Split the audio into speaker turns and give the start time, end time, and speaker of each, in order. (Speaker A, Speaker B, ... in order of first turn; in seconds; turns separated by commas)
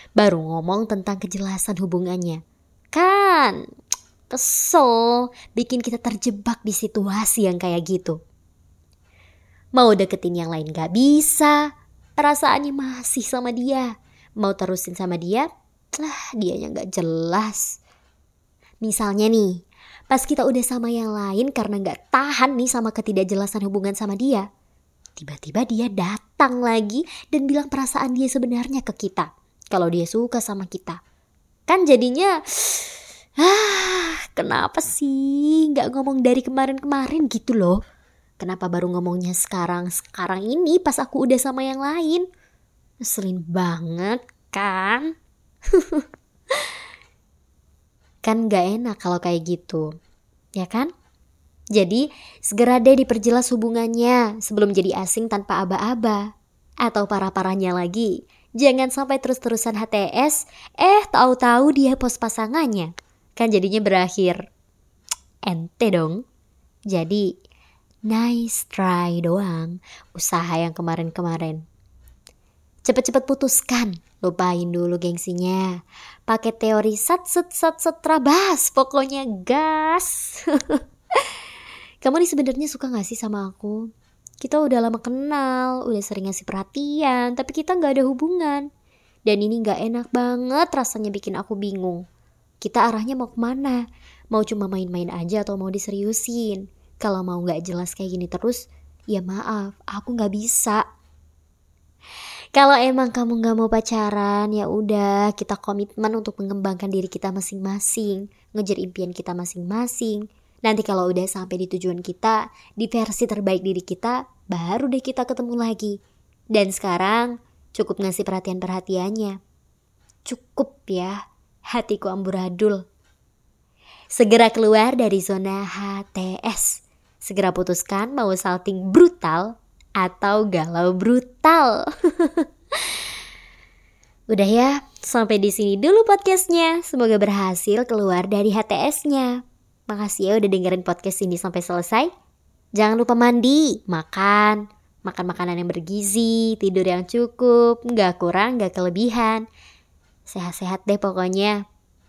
Speaker A: 0.2-2.4, Speaker A: 2.9-3.6, Speaker A: 4.3-8.2, Speaker A: 9.7-17.8, Speaker A: 18.8-24.4, Speaker A: 25.2-31.0, Speaker A: 31.7-37.8, Speaker A: 38.4-42.2, Speaker A: 43.0-45.1, Speaker A: 45.7-46.0, Speaker A: 48.2-49.9, Speaker A: 50.5-50.9, Speaker A: 51.7-56.3, Speaker A: 56.8-64.4, Speaker A: 65.5-66.2, Speaker A: 66.9-67.3, Speaker A: 68.1-71.6, Speaker A: 72.8-80.8, Speaker A: 82.0-83.9, Speaker A: 84.4-88.7, Speaker A: 89.2-92.0, Speaker A: 92.6-100.8, Speaker A: 102.5-116.0, Speaker A: 116.5-119.4, Speaker A: 120.2-122.8, Speaker A: 124.1-133.0, Speaker A: 134.3-142.1, Speaker A: 142.8-149.4, Speaker A: 150.2-151.6